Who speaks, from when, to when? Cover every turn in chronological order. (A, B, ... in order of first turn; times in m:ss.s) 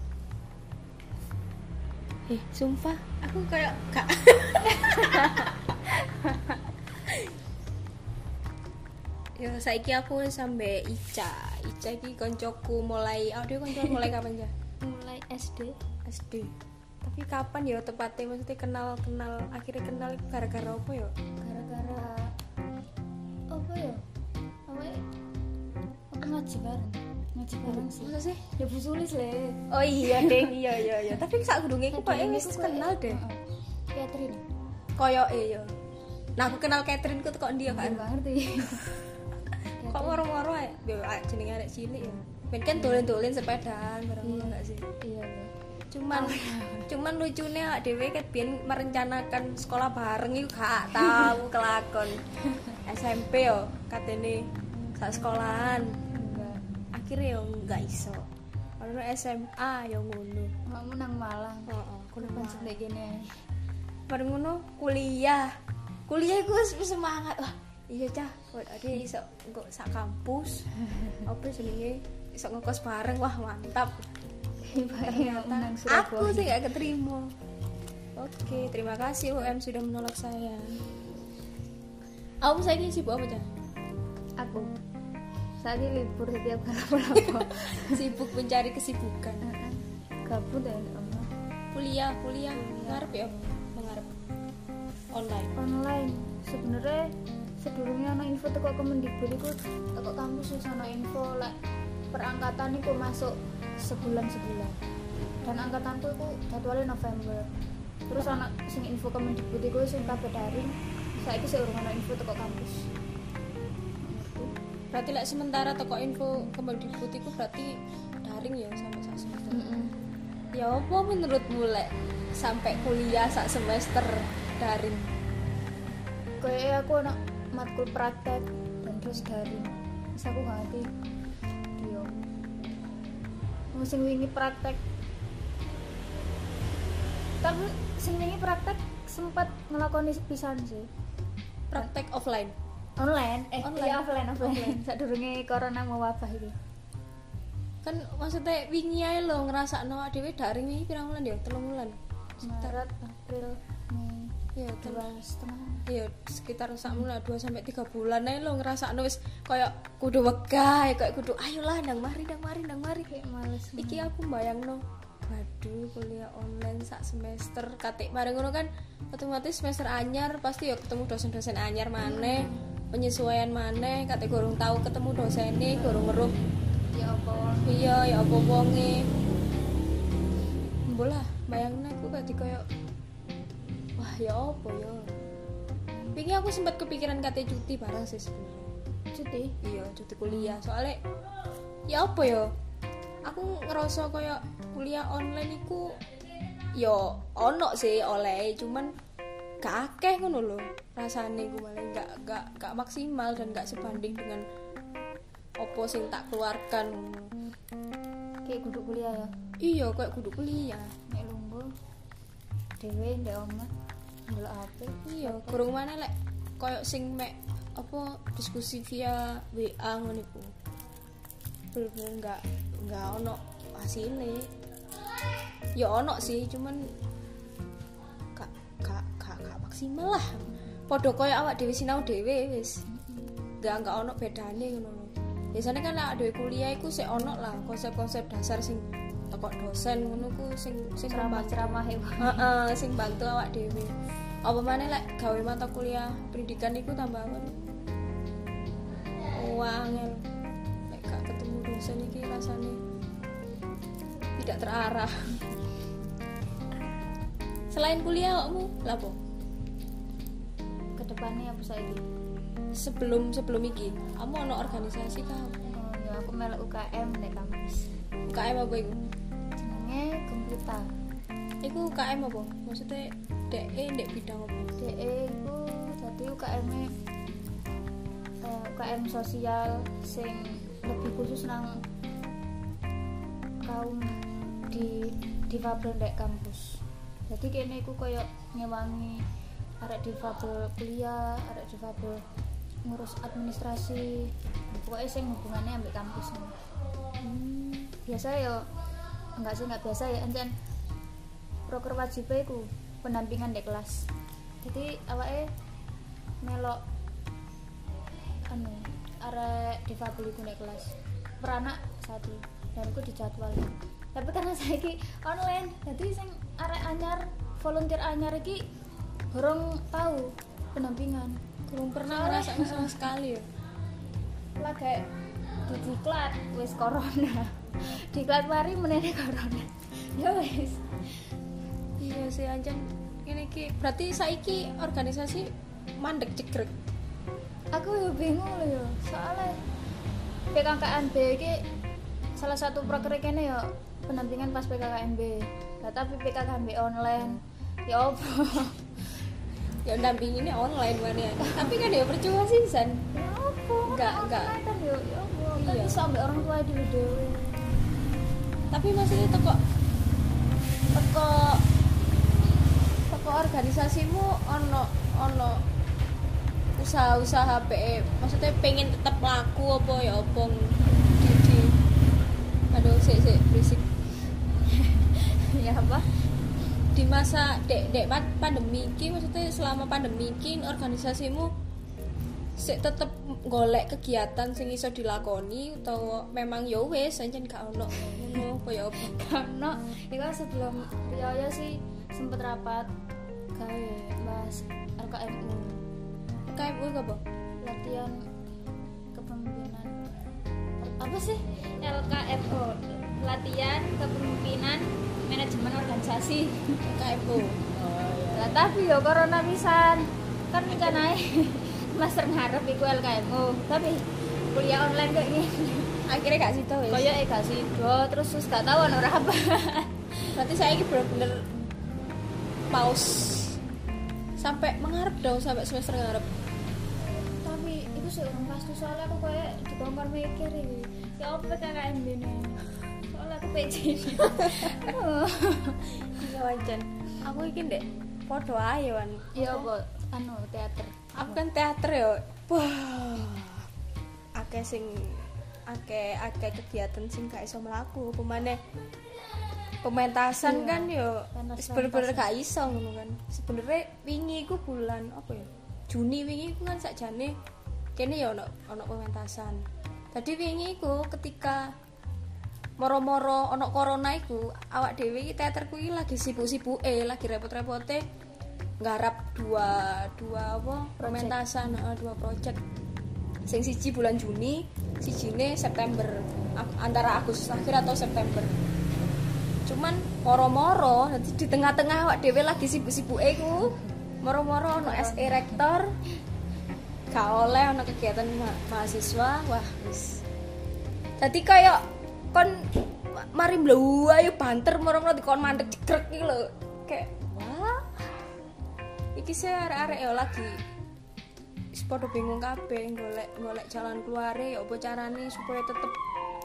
0:02.3-0:05.6 A
0:04.7-0:05.5 B
0:06.1-0:06.5 B
0:07.0-0:07.3 A
0:09.4-0:14.5 A
0:13.7-0:14.0 B
0:14.8-0:15.8 B
0:16.0-0:21.1 A
0:21.4-0:22.3 B
0:23.5-0:24.0 B
0:24.7-0:25.0 B
0:26.1-0:30.5 B
0:27.6-0:28.4 A
0:29.7-0:33.2 A
0:31.9-0:33.4 B
0:33.9-0:34.4 B
0:35.0-0:35.7 A
0:36.4-0:38.1 A
0:37.7-0:38.9 B
0:39.8-0:40.2 B
0:39.8-0:44.9 A
0:42.7-0:43.1 B
0:44.2-0:45.5 B
0:45.9-0:52.2 A
0:46.1-0:46.9 B
0:52.5-0:52.8 B
0:52.8-0:55.9 A
0:56.1-0:56.6 B
0:56.9-0:58.2 A
0:58.8-1:00.5 A
1:00.7-1:03.4 B
1:01.7-1:02.8 A
1:04.1-1:05.5 A
1:06.1-1:10.7 A
1:11.2-1:14.1 A
1:14.7-1:16.6 B
1:14.7-1:17.3 A
1:18.2-1:20.8 A
1:22.4-1:23.5 A
1:24.4-1:24.7 B
1:25.6-1:28.0 B
1:27.2-1:29.4 A
1:29.4-1:31.3 B
1:31.7-1:34.1 A
1:32.6-1:33.1 B
1:35.1-1:35.5 A
1:35.6-1:37.1 B
1:37.6-1:41.5 B
1:42.1-1:44.8 B
1:45.4-1:47.5 B
1:48.1-1:52.9 B
1:54.0-1:54.5 B
1:54.9-1:59.7 A
1:59.5-1:59.9 B
2:00.5-2:05.1 A
2:06.4-2:10.9 B
2:11.8-2:12.2 B
2:13.7-2:14.8 B
2:17.4-2:20.9 B
2:21.7-2:22.5 A
2:23.0-2:26.6 B
2:23.6-2:24.8 A
2:27.8-2:32.8 A
2:32.4-2:35.8 B
2:34.6-2:35.0 A
2:35.9-2:43.1 A
2:43.1-2:44.1 B
2:43.8-2:56.3 A
2:52.0-2:52.6 B
2:55.8-2:56.1 B
2:56.9-2:57.8 B
2:57.6-2:59.1 A
3:00.9-3:02.6 A
3:04.0-3:05.1 A
3:06.1-3:08.7 A
3:09.1-3:09.5 B
3:09.6-3:11.0 A
3:11.9-3:12.5 A
3:13.2-3:16.0 A
3:16.8-3:18.9 A
3:19.6-3:24.4 A
3:25.6-3:27.3 A
3:28.4-3:29.3 B
3:29.6-3:30.9 A
3:31.1-3:31.7 B
3:32.8-3:33.7 B
3:34.3-3:35.7 B
3:35.1-3:40.5 A
3:41.7-3:44.5 A
3:45.8-3:46.8 A
3:48.3-3:52.8 A
3:52.9-3:53.3 B
3:53.6-4:07.7 A
4:01.1-4:02.5 B
4:09.3-4:10.2 A
4:10.9-4:12.8 A
4:14.4-4:15.4 A
4:17.7-4:19.2 A
4:21.0-4:22.0 B
4:22.7-4:25.6 A
4:25.6-4:27.9 B
4:28.3-4:29.0 A
4:29.6-4:30.9 B
4:31.6-4:34.7 A
4:34.8-4:36.9 B
4:38.4-4:41.8 B
4:43.6-4:49.2 B
4:49.8-4:52.2 B
4:52.8-4:56.6 B
4:57.2-4:58.7 B
4:59.4-5:00.5 B
5:01.7-5:04.1 B
5:04.6-5:05.5 B
5:06.4-5:06.8 B
5:08.5-5:18.6 B
5:19.3-5:21.4 B
5:21.7-5:23.4 A
5:22.1-5:23.1 B
5:24.6-5:25.1 B
5:25.7-5:31.3 B
5:32.0-5:36.7 A
5:37.7-5:39.6 B
5:40.5-5:41.6 B
5:42.4-5:48.8 B
5:49.8-5:53.1 A
5:51.4-5:51.7 B
5:53.1-5:57.4 B
5:53.9-5:54.6 A
5:55.5-5:56.1 A
5:58.7-5:59.6 A
6:00.9-6:01.6 A
6:03.1-6:05.6 A
6:06.8-6:11.8 A
6:12.7-6:13.8 A
6:14.7-6:16.1 B
6:16.9-6:21.5 A
6:22.6-6:29.2 A
6:29.0-6:32.9 B
6:33.5-6:35.8 B
6:36.5-6:37.2 A
6:37.6-6:38.2 B
6:39.1-6:40.0 B
6:40.8-6:46.8 B
6:46.8-6:47.6 A
6:48.2-6:56.0 B
6:50.7-6:51.0 A
6:56.0-6:57.1 A
6:56.9-7:00.1 B
7:00.3-7:01.5 A
7:02.7-7:03.6 A
7:04.4-7:06.3 A
7:07.4-7:16.0 B
7:14.4-7:14.9 A
7:16.0-7:19.7 A
7:19.3-7:21.4 B
7:21.1-7:23.7 A
7:24.4-7:28.6 A
7:29.8-7:37.3 A
7:30.4-7:32.3 B
7:38.0-7:41.7 A
7:42.8-7:48.0 A
7:48.8-7:52.6 A
7:51.0-7:51.4 B
7:53.5-7:58.6 A
7:59.6-8:05.9 A
8:04.8-8:05.6 B
8:07.1-8:10.2 A
8:11.2-8:18.1 A
8:19.1-8:20.6 A
8:21.7-8:26.0 A